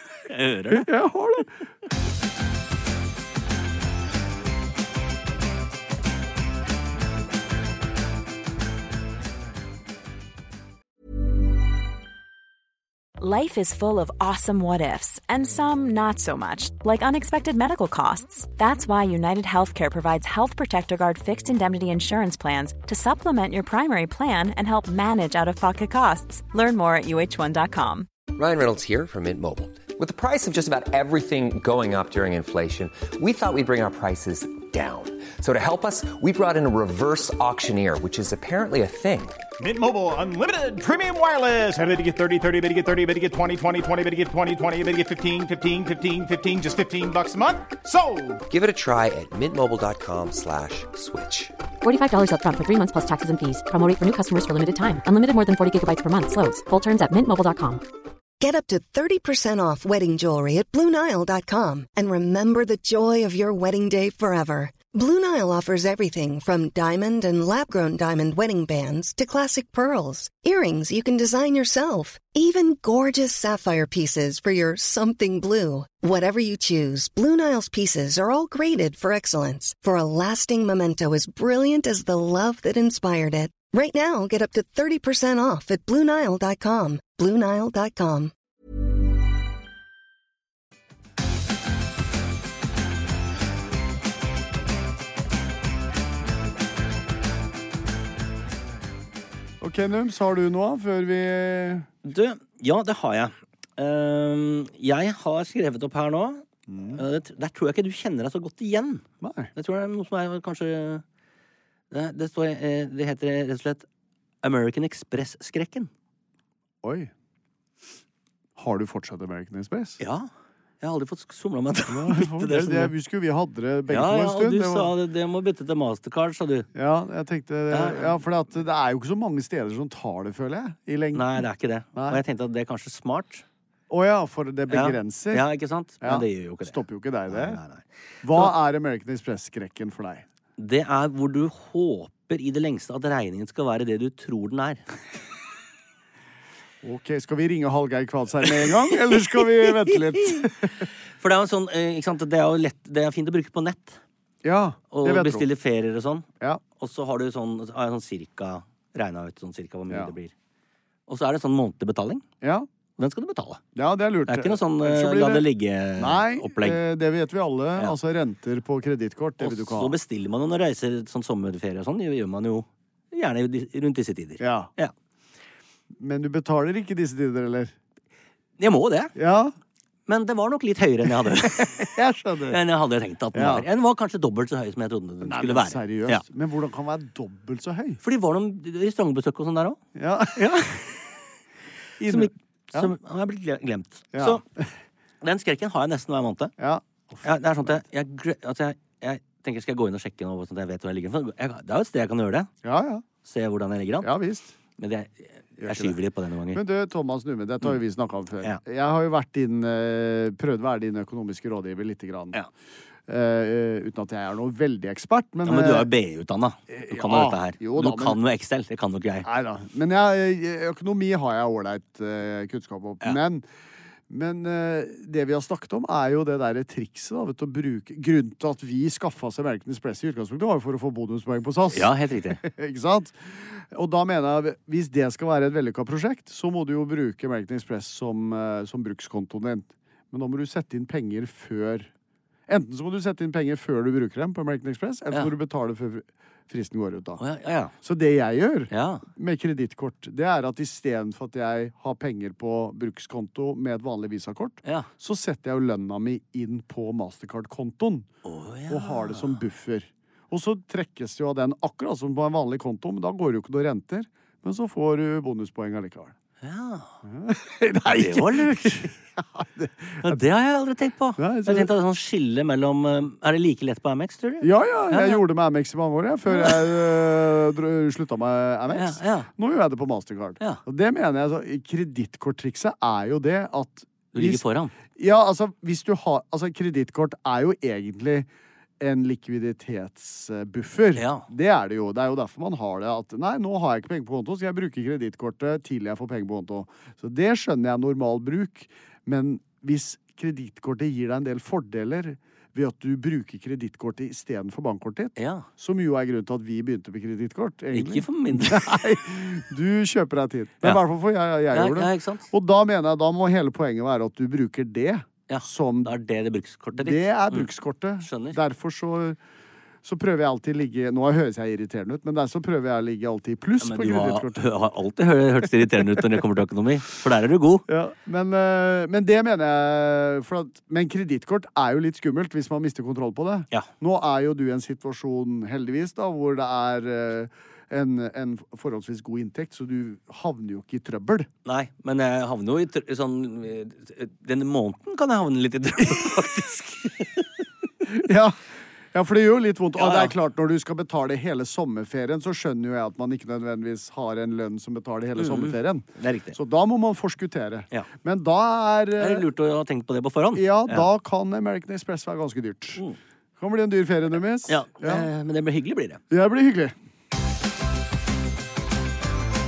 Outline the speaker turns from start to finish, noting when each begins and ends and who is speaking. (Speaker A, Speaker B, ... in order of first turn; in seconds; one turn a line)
Speaker A: 0.2-0.9
Speaker B: 0.7-1.5
Speaker C: 13.2-28.1
Speaker D: 28.3-39.4
Speaker E: 39.6-48.4
Speaker D: 48.5-51.5
Speaker F: 51.8-57.8
Speaker G: 58.4-88.3
Speaker B: 99.6-101.9
Speaker A: 102.0-109.0
Speaker B: 106.7-107.0
Speaker B: 109.2-109.5
Speaker A: 109.5-111.0
Speaker A: 111.9-113.8
Speaker A: 114.4-115.9
Speaker B: 116.8-117.1
Speaker B: 118.5-120.0
Speaker A: 120.0-120.3
Speaker A: 120.8-122.9
Speaker B: 121.9-124.9
Speaker A: 123.9-126.7
Speaker B: 126.7-132.2
Speaker A: 127.7-128.1
Speaker A: 131.1-133.4
Speaker B: 133.9-135.4
Speaker A: 134.7-136.8
Speaker B: 136.0-137.6
Speaker A: 137.3-138.5
Speaker B: 138.2-140.2
Speaker A: 140.6-144.8
Speaker B: 146.8-150.9
Speaker A: 149.6-150.4
Speaker A: 151.2-154.0
Speaker B: 154.4-155.4
Speaker A: 154.9-156.2
Speaker A: 156.8-160.3
Speaker A: 161.1-162.2
Speaker B: 162.4-162.7
Speaker A: 163.0-163.6
Speaker B: 163.8-165.4
Speaker A: 164.3-166.8
Speaker B: 166.0-169.9
Speaker A: 169.4-174.9
Speaker B: 174.4-174.7
Speaker B: 176.0-177.7
Speaker A: 178.6-179.1
Speaker B: 179.2-179.5
Speaker A: 180.1-181.9
Speaker B: 181.4-182.6
Speaker A: 182.5-186.2
Speaker B: 183.3-183.7
Speaker B: 185.2-188.0
Speaker A: 188.0-189.8
Speaker B: 189.9-190.9
Speaker B: 192.0-192.9
Speaker A: 192.1-194.4
Speaker B: 194.1-194.6
Speaker A: 195.2-196.5
Speaker B: 196.6-197.8
Speaker A: 197.2-202.5
Speaker B: 202.6-203.0
Speaker A: 203.2-204.1
Speaker B: 204.0-204.5
Speaker A: 204.8-206.6
Speaker B: 205.6-206.0
Speaker B: 206.5-212.4
Speaker B: 213.1-215.9
Speaker A: 215.4-219.3
Speaker B: 216.7-218.2
Speaker B: 219.2-223.4
Speaker B: 224.1-241.9
Speaker A: 231.7-232.4
Speaker B: 242.5-247.2
Speaker A: 247.2-247.7
Speaker B: 247.8-258.1
Speaker A: 248.7-249.0
Speaker A: 258.2-259.4
Speaker B: 258.7-266.1
Speaker A: 266.4-266.9
Speaker B: 267.0-270.2
Speaker A: 267.9-268.9
Speaker A: 270.0-275.2
Speaker B: 271.2-271.7
Speaker B: 274.4-284.4
Speaker A: 276.3-276.7
Speaker A: 278.7-279.3
Speaker A: 284.1-284.7
Speaker B: 284.9-288.3
Speaker B: 288.8-315.9
Speaker A: 291.0-291.2
Speaker A: 305.2-305.4
Speaker A: 307.7-308.6
Speaker A: 311.5-312.3
Speaker A: 315.3-317.5
Speaker B: 316.8-319.2
Speaker A: 318.0-318.4
Speaker B: 319.8-324.4
Speaker A: 323.6-327.6
Speaker B: 327.7-341.3
Speaker A: 341.4-347.4
Speaker B: 347.9-348.4
Speaker B: 348.9-359.3
Speaker A: 349.8-350.1
Speaker A: 355.2-356.4
Speaker A: 359.0-360.9
Speaker B: 360.3-362.8
Speaker B: 363.4-365.1
Speaker A: 364.5-366.0
Speaker B: 366.1-366.7